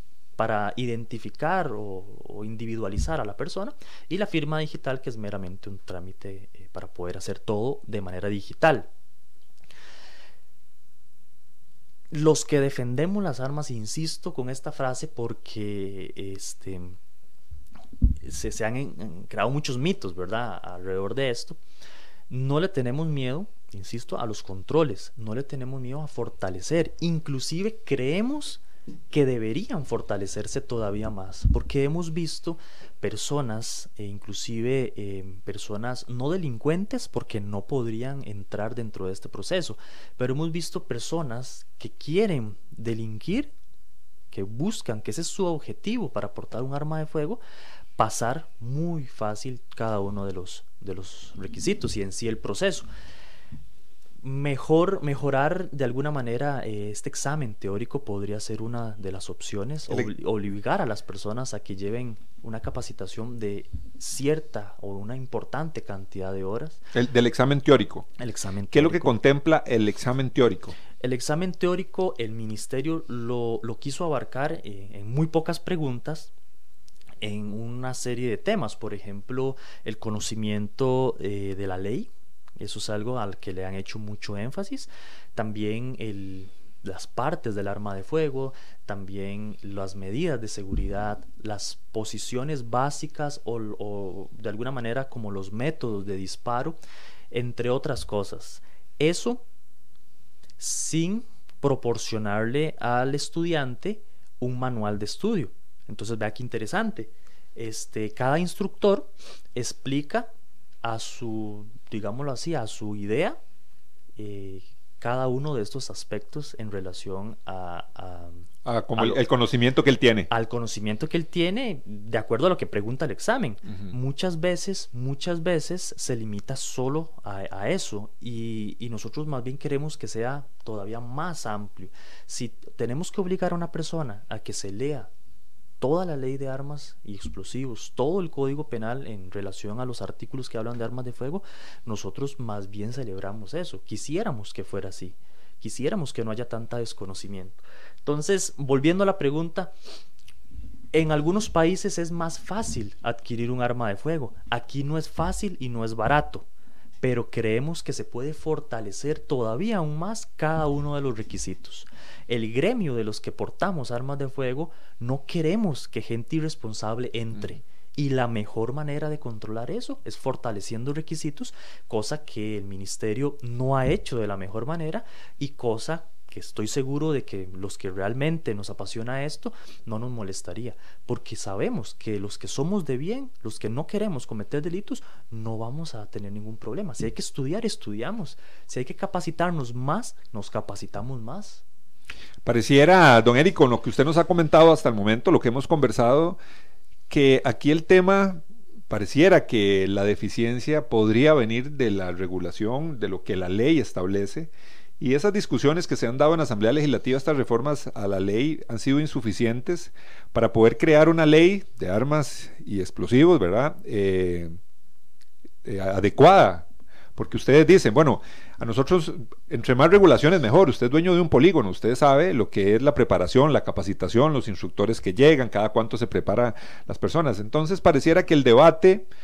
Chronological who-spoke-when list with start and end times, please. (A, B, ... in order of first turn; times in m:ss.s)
0:00.4-0:08.9 A
0:12.1-0:17.0 A
0:18.2-0:21.6 A
0:22.3-0:43.5 A
0:44.3-0:47.4 A
0:48.0-0:52.9 A
0:54.2-1:06.8 A
1:06.9-1:08.1 B
1:08.2-1:09.1 A
1:08.7-1:10.8 B
1:11.0-1:16.3 A
1:17.2-1:36.8 A
1:37.3-1:39.4 A
1:40.6-1:50.3 A
1:50.8-1:53.4 A
1:54.2-1:59.2 A
1:58.6-2:00.3 B
2:00.3-2:15.1 A
2:03.7-2:03.9 B
2:15.8-2:29.7 A
2:30.9-2:36.4 A
2:37.0-3:11.6 A
3:12.4-3:16.4 B
3:17.1-3:34.5 B
3:35.6-3:49.1 B